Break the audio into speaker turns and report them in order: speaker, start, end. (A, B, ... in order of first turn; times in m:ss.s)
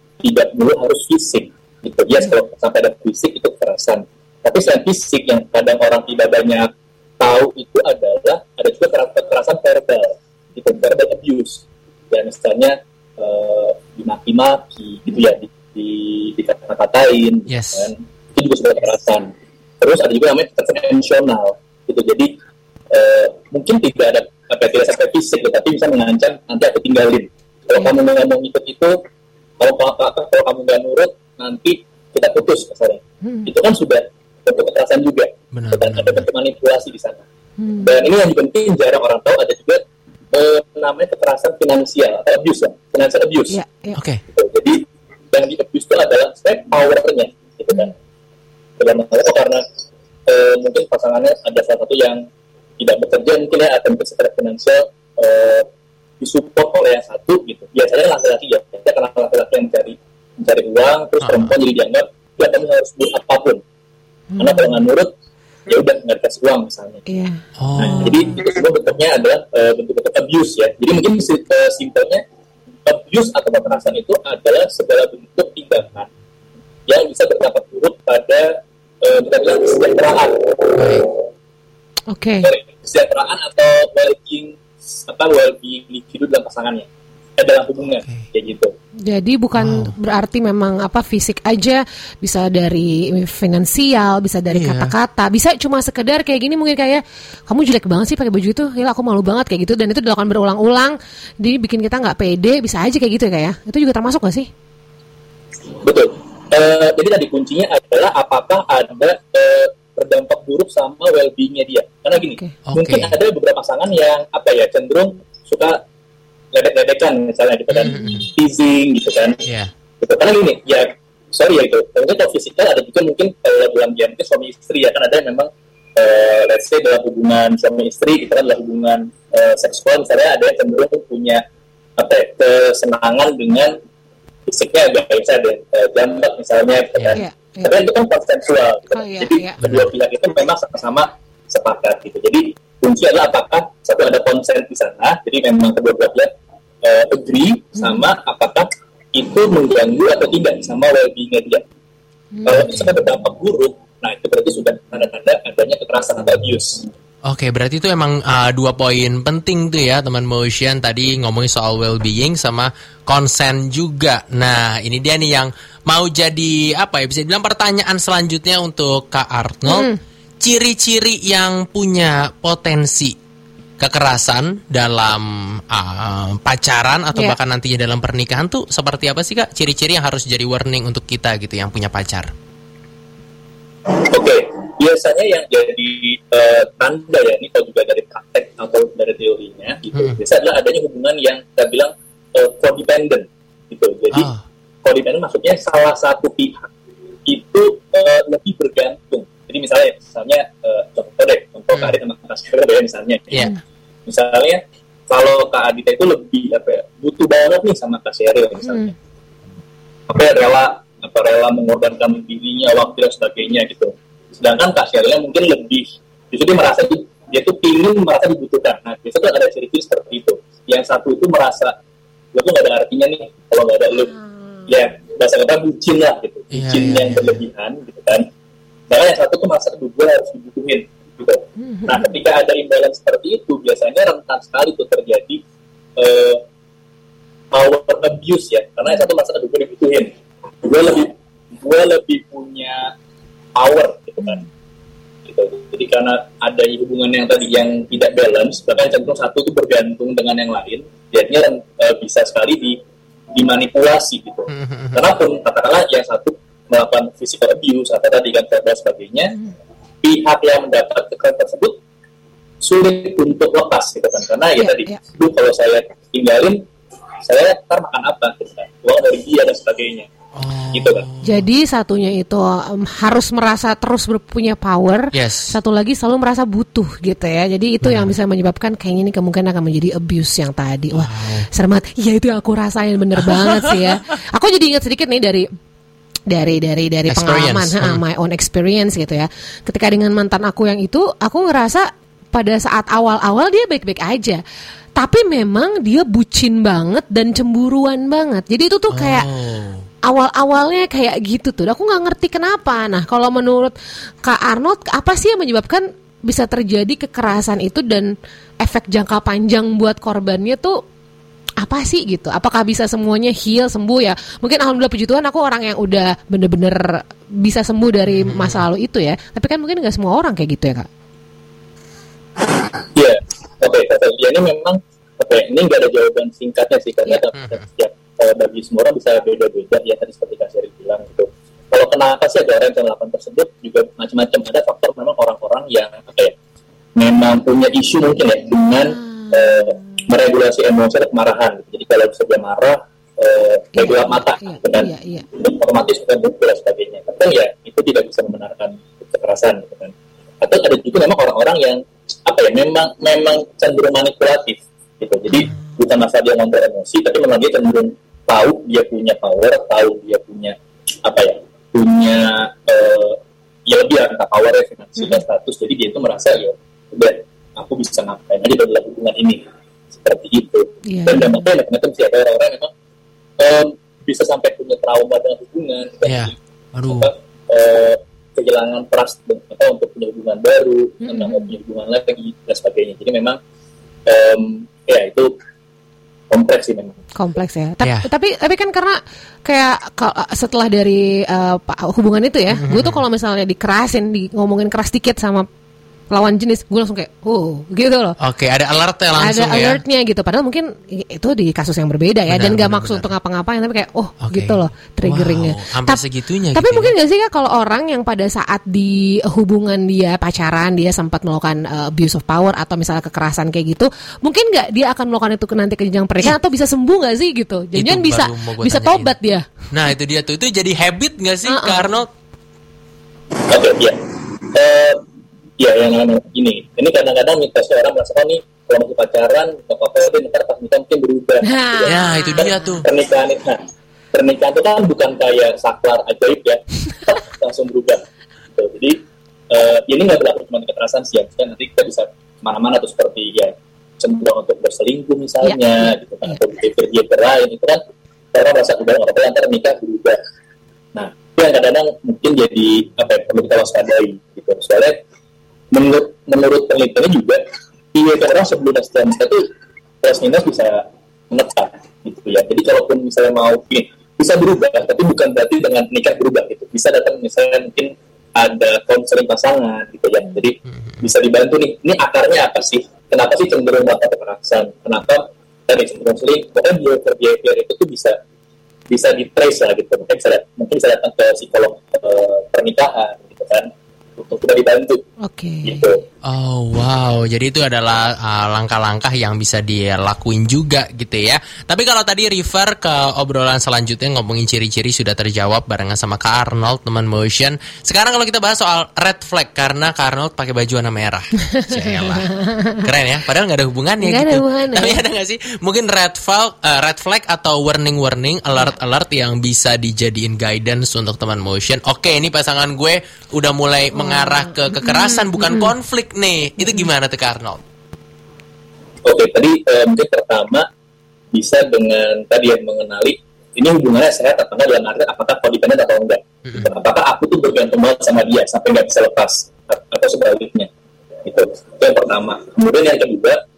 0:00.2-0:06.7 A
0:07.2-0:22.3 A
0:17.5-0:17.9 B
0:22.9-0:29.0 A
0:29.6-0:37.2 A
0:33.2-0:33.5 C
0:35.5-0:36.3 B
0:37.6-0:37.9 C
0:37.8-0:39.8 A
0:40.3-0:43.6 A
0:43.5-0:44.0 C
0:44.0-0:44.2 B
0:44.3-0:44.8 A
0:45.3-0:47.9 A
0:48.8-0:49.6 A
0:50.3-0:52.2 A
0:52.8-0:55.7 A
0:56.2-1:03.6 A
1:01.2-1:01.5 B
1:04.3-1:04.8 C
1:04.4-1:05.1 A
1:05.7-1:07.0 A
1:07.1-1:07.4 C
1:07.6-1:08.3 B
1:07.8-1:12.2 A
1:12.9-1:16.1 A
1:16.9-1:21.0 A
1:20.8-1:21.1 B
1:22.1-1:22.5 C
1:22.4-1:28.7 A
1:28.0-1:28.3 B
1:29.1-1:44.5 C
1:29.6-1:29.9 B
1:34.5-1:34.9 B
1:45.8-1:55.8 A
1:52.7-1:53.2 B
1:56.5-1:59.4 A
1:57.7-1:58.3 B
1:57.9-1:58.3 C
1:59.4-1:59.7 B
2:00.0-2:11.4 A
2:12.0-2:13.7 A
2:14.5-2:26.3 A
2:17.0-2:17.2 B
2:17.1-2:17.7 C
2:18.9-2:19.6 C
2:19.6-2:19.9 B
2:26.8-2:31.6 A
2:27.8-2:28.0 C
2:32.3-2:32.7 C
2:32.4-2:36.9 A
2:37.3-2:53.2 B
2:49.7-2:50.0 C
2:53.8-3:02.3 B
3:04.1-3:14.3 A
3:14.1-3:14.4 B
3:14.8-3:16.7 A
3:17.3-3:23.4 A
3:24.1-3:28.9 A
3:28.7-3:29.0 C
3:30.1-3:41.7 A
3:42.3-3:44.1 A
3:44.0-3:44.2 C
3:44.7-3:48.3 A
3:46.5-3:47.4 B
3:48.9-3:55.4 A
3:51.6-3:52.1 C
3:56.0-3:56.4 A
3:57.5-4:00.1 A
4:00.6-4:02.9 A
4:03.6-4:04.5 A
4:05.3-4:12.8 A
4:13.3-4:19.4 A
4:14.5-4:15.1 B
4:20.0-4:21.8 A
4:22.6-4:26.6 A
4:24.6-4:25.0 C
4:27.2-4:30.1 A
4:30.4-4:31.5 B
4:30.7-4:31.1 A
4:31.2-4:45.5 C
4:35.1-4:35.6 B
4:37.8-4:38.1 B
4:40.9-4:41.5 B
4:43.2-4:43.7 B
4:46.3-4:54.4 C
4:47.1-4:48.0 B
4:55.0-4:59.3 C
4:58.9-4:59.8 B
5:00.1-5:08.1 C
5:08.6-5:10.8 C
5:11.6-5:20.9 C
5:18.1-5:18.6 B
5:22.9-5:36.3 A
5:27.4-5:27.6 B
5:37.0-6:09.4 A
5:39.0-5:40.0 C
5:43.8-5:45.3 C
5:55.4-5:55.8 C
6:09.9-6:12.7 A
6:10.9-6:11.5 C
6:13.4-6:16.3 A
6:16.0-6:17.1 B
6:16.8-6:23.4 A
6:21.0-6:21.5 C
6:24.1-6:25.3 A
6:26.3-6:27.0 A
6:27.2-6:35.5 C
6:27.8-6:28.1 B
6:32.5-6:33.0 B
6:36.1-6:38.2 C
6:38.2-6:39.8 B
6:39.2-6:59.4 C
6:42.3-6:43.1 B
6:44.2-6:46.9 B
6:57.8-6:59.1 B
6:59.7-7:02.1 B
7:01.5-7:01.9 C
7:03.5-7:04.0 A
7:04.5-7:05.0 A
7:05.6-7:18.0 A
7:11.4-7:12.6 C
7:11.9-7:12.9 B
7:18.6-7:19.0 A
7:19.5-7:27.8 A
7:25.4-7:26.4 C
7:28.3-7:30.2 A
7:31.0-7:35.0 A
7:35.7-7:37.4 A
7:37.9-7:39.4 A
7:40.0-7:58.2 A
7:50.7-7:51.1 B
7:58.9-8:05.0 A
8:05.2-8:05.9 C
8:05.6-8:06.0 A
8:06.2-8:37.6 B
8:21.6-8:22.8 C
8:24.0-8:25.0 C
8:33.9-8:35.7 C
8:36.6-8:36.9 C
8:39.0-8:40.6 A
8:41.3-8:50.7 A
8:51.2-8:53.4 A